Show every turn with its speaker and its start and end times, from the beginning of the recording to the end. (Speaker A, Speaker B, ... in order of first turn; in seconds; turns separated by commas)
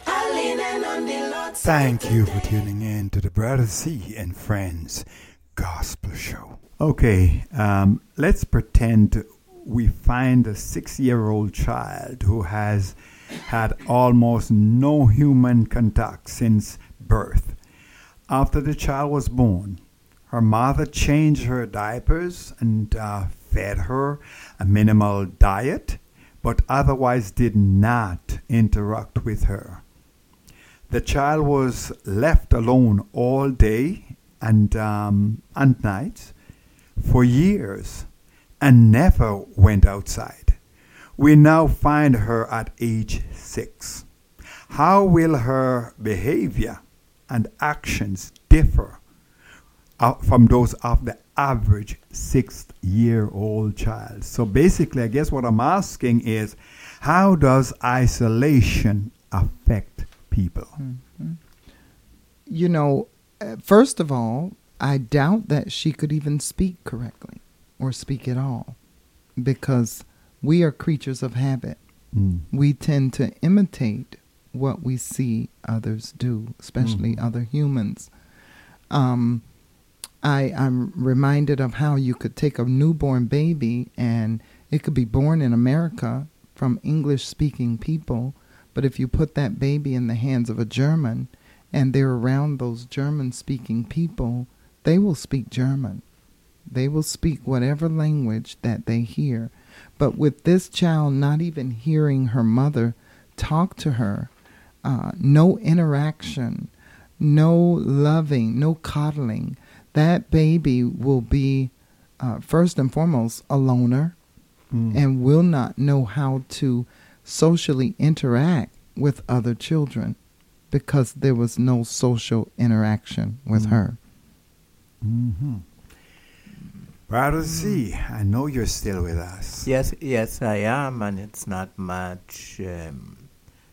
Speaker A: 1.6-17.6, Speaker A: 18.3-29.8, Speaker A: 30.9-36.3, Speaker A: 37.0-38.1, Speaker A: 38.6-40.6, Speaker A: 41.2-44.0, Speaker A: 44.7-49.0, Speaker A: 50.0-60.8, Speaker B: 60.8-61.4, Speaker B: 62.5-68.8, Speaker B: 69.4-71.8, Speaker A: 72.1-72.5, Speaker B: 72.5-78.1, Speaker A: 76.8-77.2, Speaker B: 78.9-79.4, Speaker B: 80.2-96.0, Speaker B: 96.7-104.3, Speaker B: 104.8-114.2, Speaker A: 114.7-115.0, Speaker B: 114.9-120.2, Speaker B: 120.7-124.0, Speaker A: 123.5-123.8, Speaker A: 125.0-125.6, Speaker A: 127.1-129.7, Speaker C: 129.6-133.3